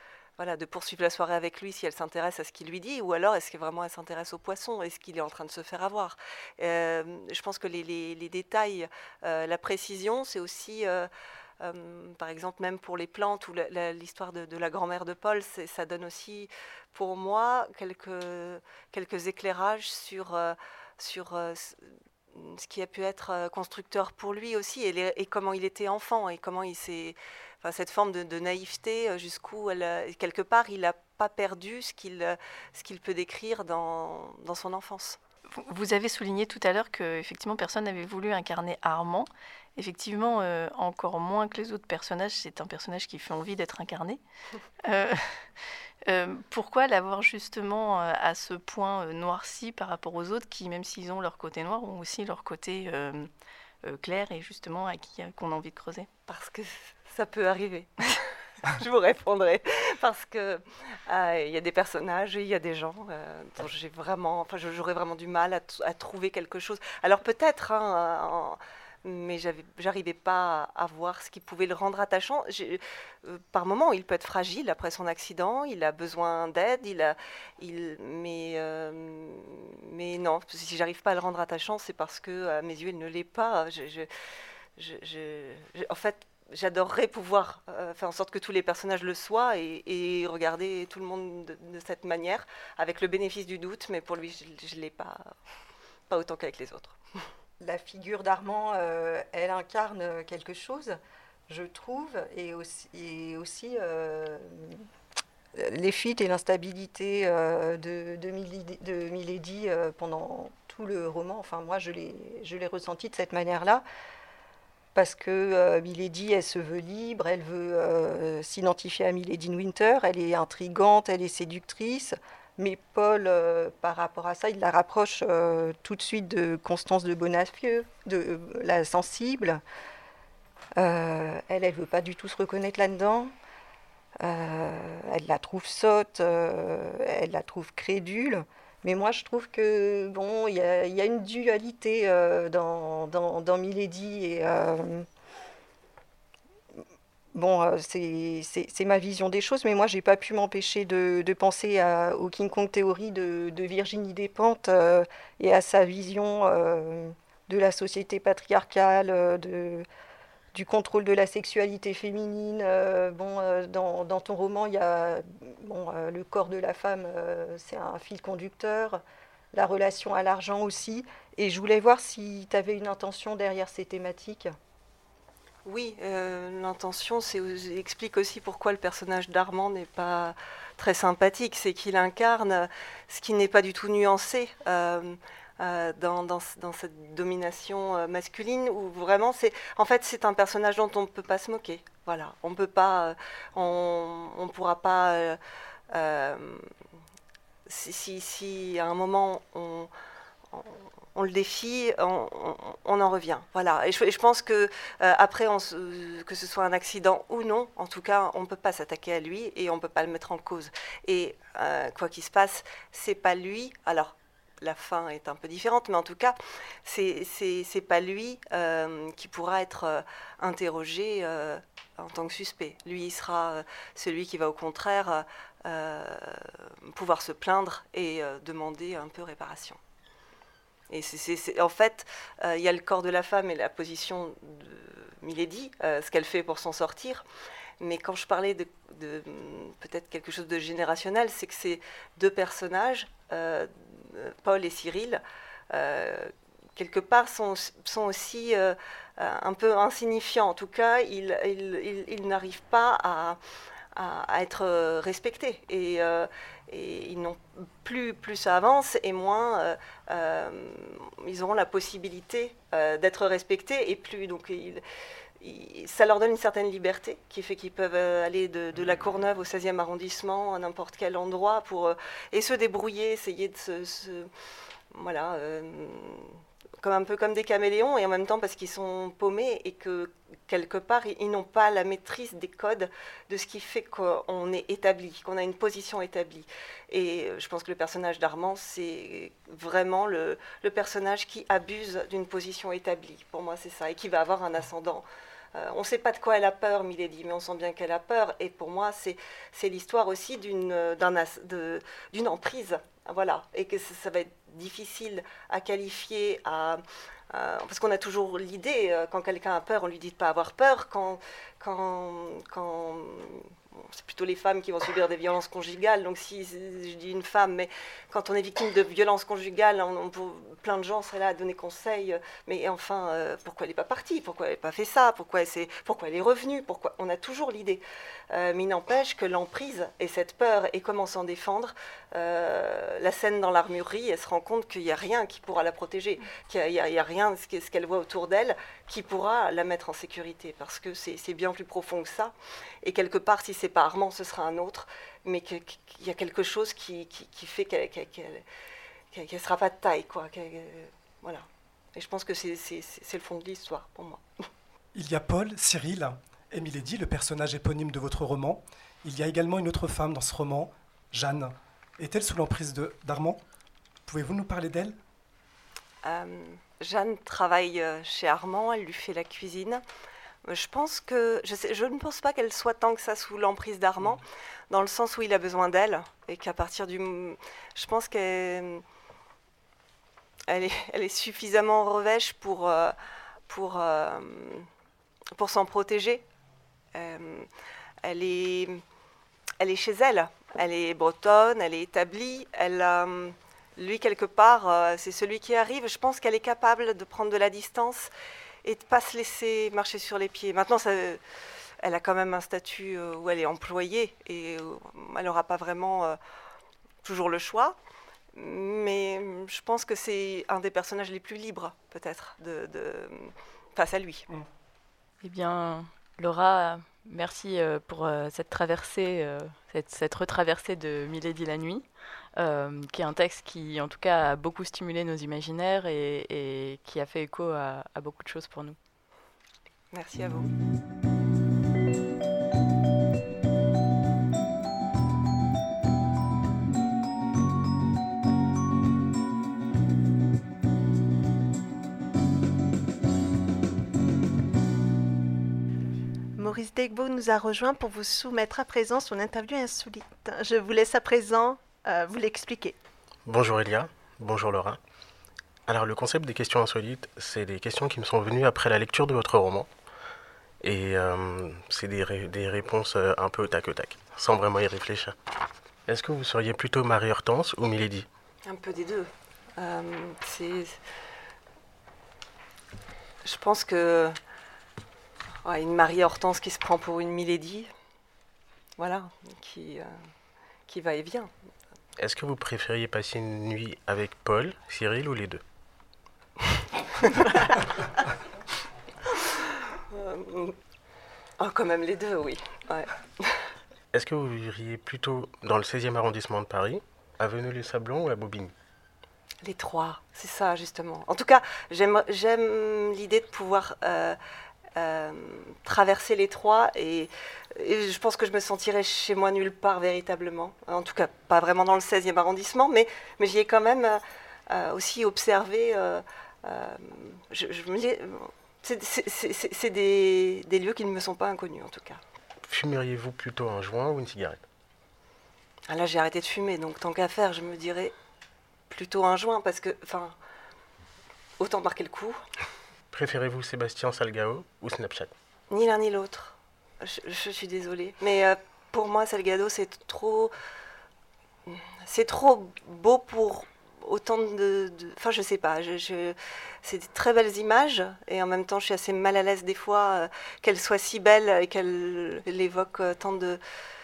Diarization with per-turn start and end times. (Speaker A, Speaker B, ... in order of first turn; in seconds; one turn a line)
Speaker A: 0.4-35.2
Speaker B: 35.6-44.2
Speaker B: 44.8-45.3
Speaker B: 46.1-53.3
Speaker B: 53.8-56.1
Speaker A: 56.3-84.1
Speaker A: 84.8-95.3
Speaker A: 96.1-97.0
Speaker C: 97.6-101.0
Speaker C: 101.5-104.8
Speaker C: 105.5-113.8
Speaker C: 114.9-129.6
Speaker C: 130.8-133.3
Speaker C: 134.2-145.1
Speaker C: 147.3-159.9
Speaker C: 160.5-174.5
Speaker A: 175.7-195.4
Speaker A: 195.9-196.7
Speaker A: 197.7-199.9
Speaker A: 200.5-229.8
Speaker A: 230.9-237.2
Speaker A: 237.8-253.4
Speaker A: 253.9-264.8
Speaker A: 265.4-274.3
Speaker A: 274.9-348.4
Speaker A: 349.1-354.2
Speaker D: 354.9-363.4
Speaker D: 364.1-364.9
Speaker A: 366.0-369.8
Speaker A: 370.4-378.8
Speaker A: 380.5-382.9
Speaker A: 383.5-384.7
Speaker A: 385.3-386.2
Speaker A: 386.9-387.5
Speaker A: 388.0-388.8
Speaker A: 389.6-398.1
Speaker A: 398.6-401.2
Speaker A: 401.8-406.2
Speaker A: 407.0-407.8
Speaker A: 408.3-414.3
Speaker E: 415.2-421.8
Speaker E: 422.4-428.8
Speaker A: 429.9-430.5
Speaker F: 446.4-452.8
Speaker G: 453.3-454.8
Speaker G: 455.7-459.7
Speaker G: 460.6-465.1
Speaker G: 465.9-468.1
Speaker A: 468.4-470.8
Speaker A: 473.2-474.1
Speaker A: 475.4-477.7
Speaker A: 478.8-479.9
Speaker A: 480.7-481.3
Speaker G: 482.0-485.4
Speaker A: 489.9-490.6
Speaker A: 491.4-493.4
Speaker G: 493.9-498.5
Speaker A: 499.4-504.2
Speaker A: 504.8-522.0
Speaker G: 522.5-524.4
Speaker A: 525.7-527.9
Speaker A: 528.7-530.1
Speaker A: 531.4-532.2
Speaker G: 532.9-535.1
Speaker A: 535.5-540.3
Speaker A: 541.5-553.4